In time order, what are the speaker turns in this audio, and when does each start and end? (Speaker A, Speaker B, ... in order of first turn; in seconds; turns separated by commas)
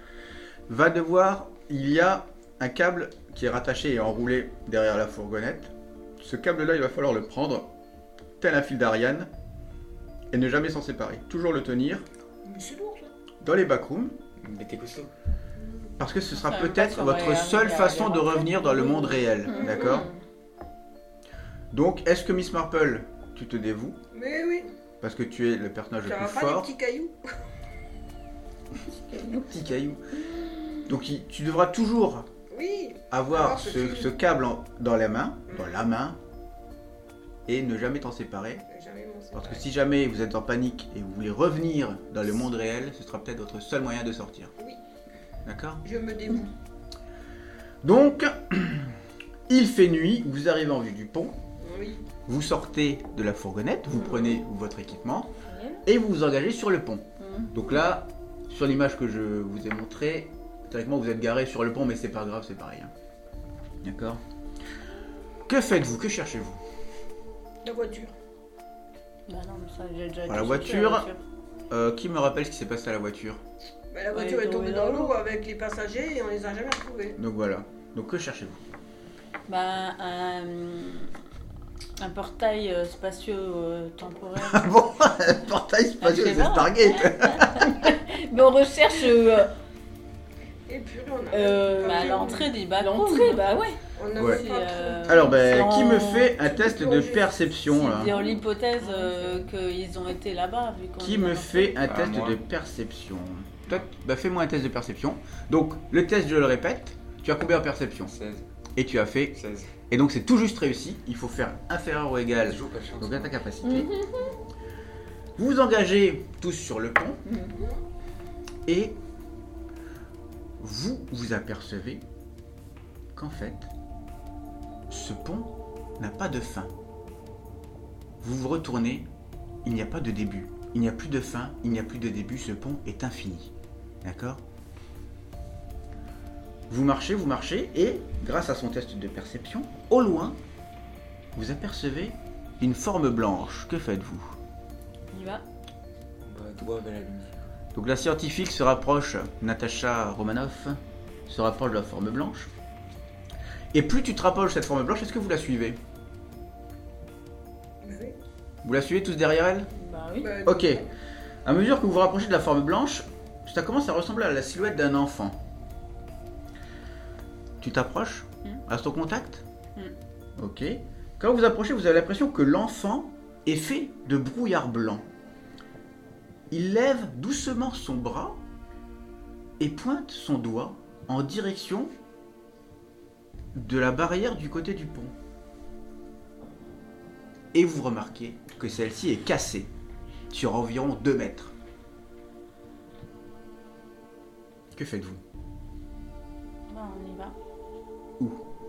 Speaker A: 0.7-7.7, Speaker A: 8.4-9.3, Speaker A: 10.3-12.0, Speaker B: 12.4-13.1, Speaker A: 13.4-14.2, Speaker C: 14.4-15.1, Speaker B: 15.6-15.9, Speaker A: 16.0-20.1, Speaker D: 16.3-19.3, Speaker E: 19.4-20.2, Speaker B: 19.5-20.1, Speaker A: 21.7-24.0, Speaker B: 24.1-24.7, Speaker A: 25.0-26.7, Speaker B: 26.0-27.1, Speaker E: 28.9-29.5, Speaker A: 29.5-30.0, Speaker A: 30.9-32.3, Speaker B: 32.5-34.1, Speaker A: 33.1-36.2, Speaker B: 35.5-35.9, Speaker A: 37.5-38.6, Speaker B: 38.7-39.6, Speaker A: 39.3-44.5, Speaker A: 45.4-45.8, Speaker B: 45.8-46.5, Speaker A: 47.8-49.0, Speaker A: 49.5-51.3, Speaker B: 51.6-52.0, Speaker A: 52.2-55.3, Speaker E: 55.4-55.8, Speaker A: 55.9-62.9, Speaker E: 57.2-57.5, Speaker A: 63.8-64.2, Speaker A: 65.5-66.6, Speaker B: 67.6-68.1, Speaker D: 69.3-71.2, Speaker A: 70.3-71.1, Speaker A: 71.7-73.4, Speaker B: 73.9-77.2, Speaker D: 74.1-75.1, Speaker A: 77.2-78.6, Speaker D: 79.5-81.1, Speaker D: 82.0-84.7, Speaker A: 84.4-87.8, Speaker D: 86.0-87.7, Speaker E: 87.8-89.5, Speaker B: 90.7-92.6, Speaker E: 91.3-93.8, Speaker D: 91.7-93.5, Speaker B: 94.0-95.2, Speaker A: 94.1-94.4, Speaker D: 94.2-96.3, Speaker A: 95.0-98.1, Speaker B: 96.3-97.4, Speaker D: 97.7-101.8, Speaker B: 98.0-98.4, Speaker B: 98.9-99.3, Speaker A: 101.0-108.1, Speaker C: 101.8-102.4, Speaker C: 108.0-108.4, Speaker A: 108.8-109.3, Speaker C: 109.3-109.7, Speaker A: 109.9-113.9, Speaker C: 112.4-113.4, Speaker E: 113.6-114.3, Speaker A: 115.4-117.2, Speaker E: 117.2-117.5, Speaker A: 118.7-119.0, Speaker A: 120.6-122.0, Speaker A: 123.1-123.7, Speaker A: 124.9-126.7, Speaker A: 128.2-129.1, Speaker A: 129.6-133.5, Speaker A: 134.0-134.4, Speaker A: 136.7-140.4, Speaker A: 141.3-144.3, Speaker E: 145.1-145.4, Speaker C: 146.2-147.3, Speaker A: 147.7-152.5, Speaker A: 153.7-155.8, Speaker B: 157.8-158.2, Speaker A: 158.6-159.7, Speaker E: 159.7-160.3, Speaker B: 160.2-160.9, Speaker A: 160.4-160.8, Speaker A: 161.4-165.4, Speaker A: 167.6-169.4, Speaker A: 170.4-175.1, Speaker A: 176.5-178.4, Speaker A: 179.6-181.9, Speaker A: 183.5-185.1, Speaker A: 187.5-189.7, Speaker A: 190.3-191.5, Speaker A: 194.7-195.2, Speaker D: 196.7-197.3